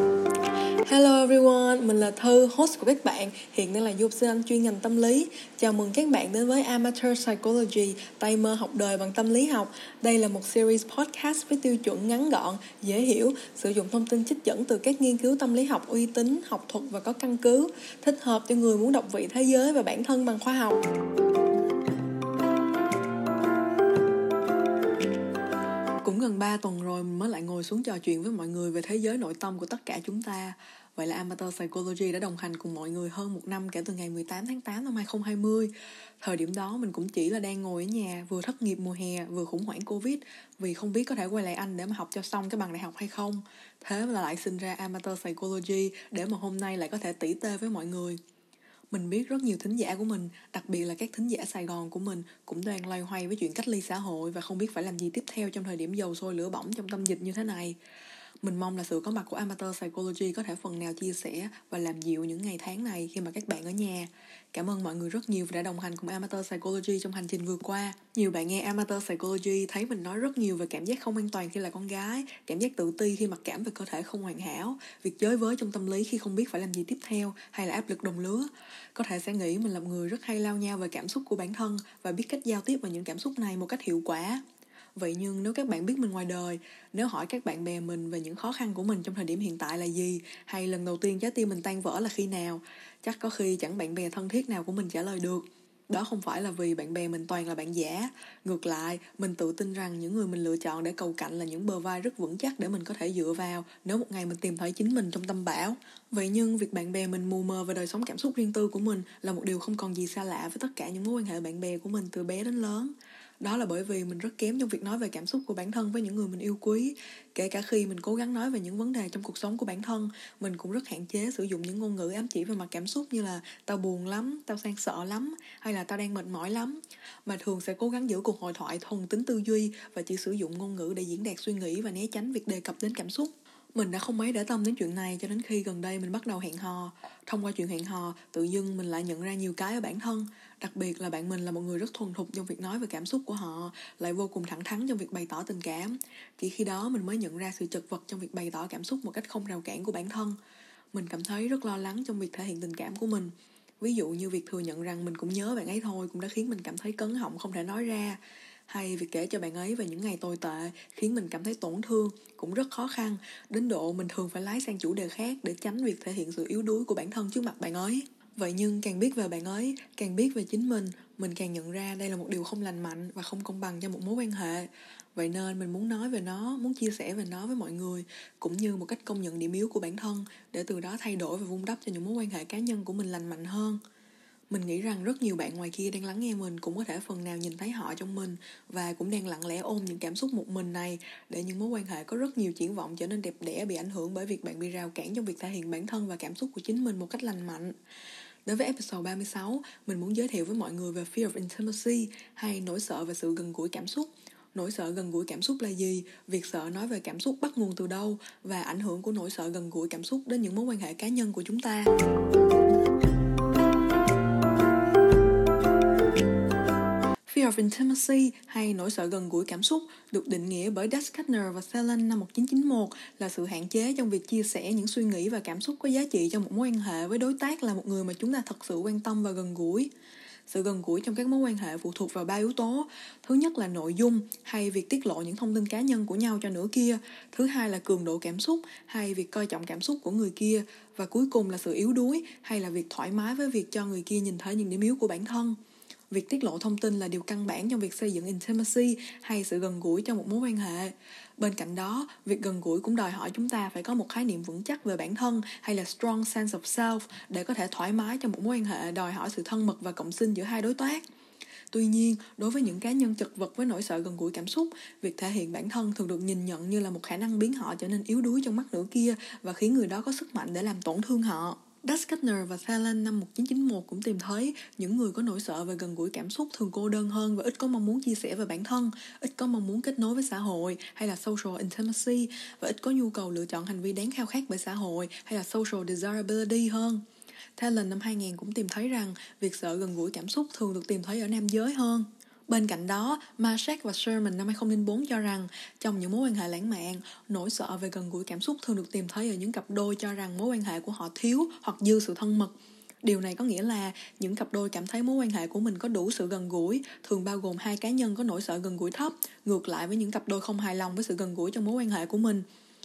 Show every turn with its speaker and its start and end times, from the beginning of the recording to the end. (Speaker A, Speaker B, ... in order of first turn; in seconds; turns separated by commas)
Speaker A: 0.8-20.8, Speaker A: 26.0-48.2, Speaker A: 48.9-57.8, Speaker A: 58.4-84.4, Speaker A: 85.0-150.4, Speaker A: 150.9-183.8, Speaker A: 184.5-197.7, Speaker A: 198.5-211.9, Speaker A: 217.3-229.9, Speaker A: 230.5-245.6, Speaker A: 246.1-261.0, Speaker A: 261.7-287.0, Speaker A: 287.6-302.5, Speaker A: 303.0-312.4